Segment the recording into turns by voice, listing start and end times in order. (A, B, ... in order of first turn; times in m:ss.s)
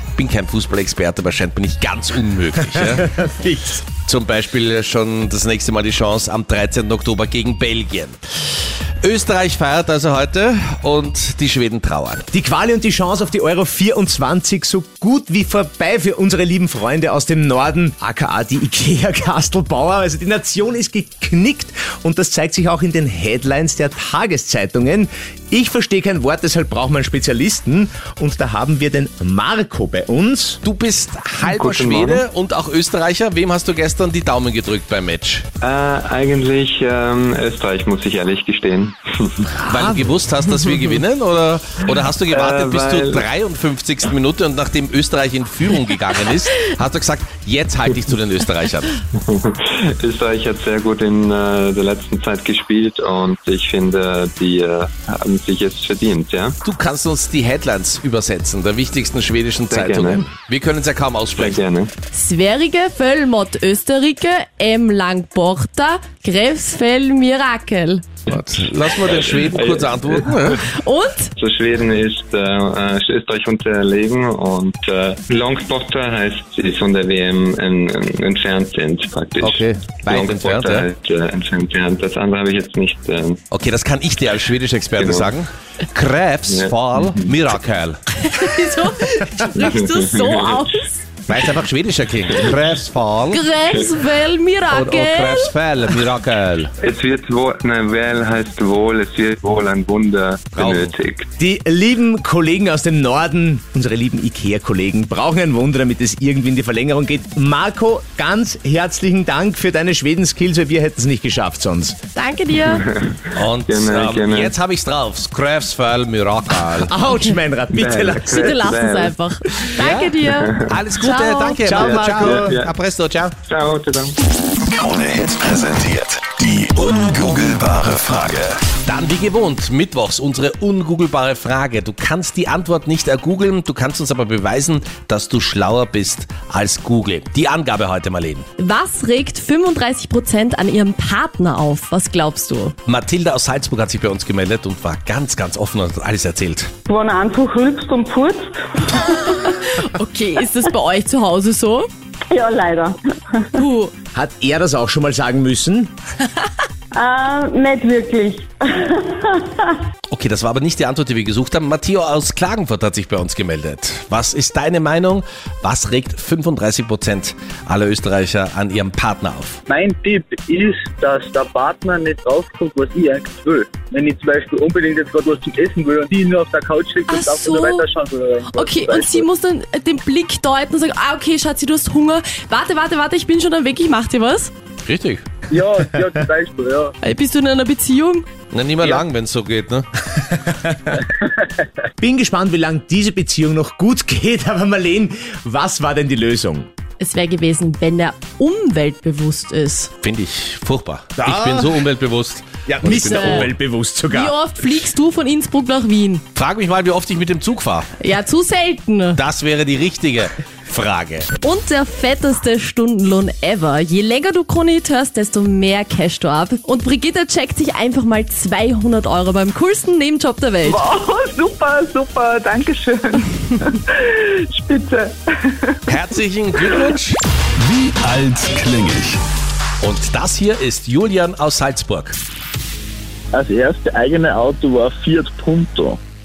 0:00.1-0:03.1 A
0:02.8-0:03.8 B
0:04.0-0:08.2 A
0:09.0-0:12.3 A
0:12.3-0:30.6 B
0:30.6-0:35.4 A
0:31.4-0:32.2 C
0:35.6-0:39.5 C
0:39.6-0:49.0 A
0:42.3-0:43.3 C
0:49.2-0:56.6 C
0:56.6-1:01.6 A
0:59.7-1:00.3 C
1:01.3-1:01.9 C
1:02.1-1:08.0 D
1:08.3-1:10.6 A
1:08.3-1:10.5 C
1:10.8-1:11.3 D
1:11.4-1:23.4 C
1:19.4-1:20.9 A
1:23.5-1:28.0 A
1:25.0-1:25.3 C
1:26.5-1:27.3 C
1:28.2-1:31.1 D
1:29.6-1:30.7 C
1:31.3-1:33.4 A
1:33.3-1:35.5 D
1:33.7-1:34.1 C
1:34.7-1:36.7 A
1:36.8-1:41.3 C
1:40.5-1:40.9 A
1:41.4-1:52.0 B
1:52.1-1:52.8 D
1:52.6-1:54.5 C
1:53.3-1:56.9 A
1:56.7-1:58.5 B
1:57.7-1:59.1 C
1:58.3-2:01.6 D
1:59.8-2:03.3 A
2:00.2-2:00.7 C
2:01.6-2:02.6 B
2:01.7-2:02.7 C
2:03.4-2:04.2 C
2:04.8-2:07.4 E
2:06.4-2:18.4 A
2:18.6-2:22.7 D
2:22.9-2:26.7 A
2:26.9-2:28.8 F
2:28.9-2:31.9 D
2:32.3-2:33.5 F
2:33.5-2:33.9 D
2:34.1-2:35.9 B
2:36.9-2:39.8 F
2:40.1-2:49.6 A
2:49.7-2:59.2 G
2:57.1-2:57.9 D
2:58.5-3:04.5 D
3:04.8-3:05.2 A
3:05.5-3:06.9 G
3:07.0-3:08.3 D
3:08.5-3:09.8 A
3:10.4-3:11.0 B
3:12.0-3:16.7 B
3:17.0-3:19.9 D
3:20.0-3:23.5 A
3:21.2-3:21.8 B
3:22.6-3:24.3 B
3:22.9-3:23.5 D
3:24.1-3:26.2 D
3:26.3-3:27.9 A
3:28.0-3:29.2 D
3:29.2-3:31.3 A
3:31.4-3:40.8 D
3:40.6-3:45.8 H
3:45.9-3:49.2 A
3:49.8-3:52.2 A
3:53.3-3:56.0 G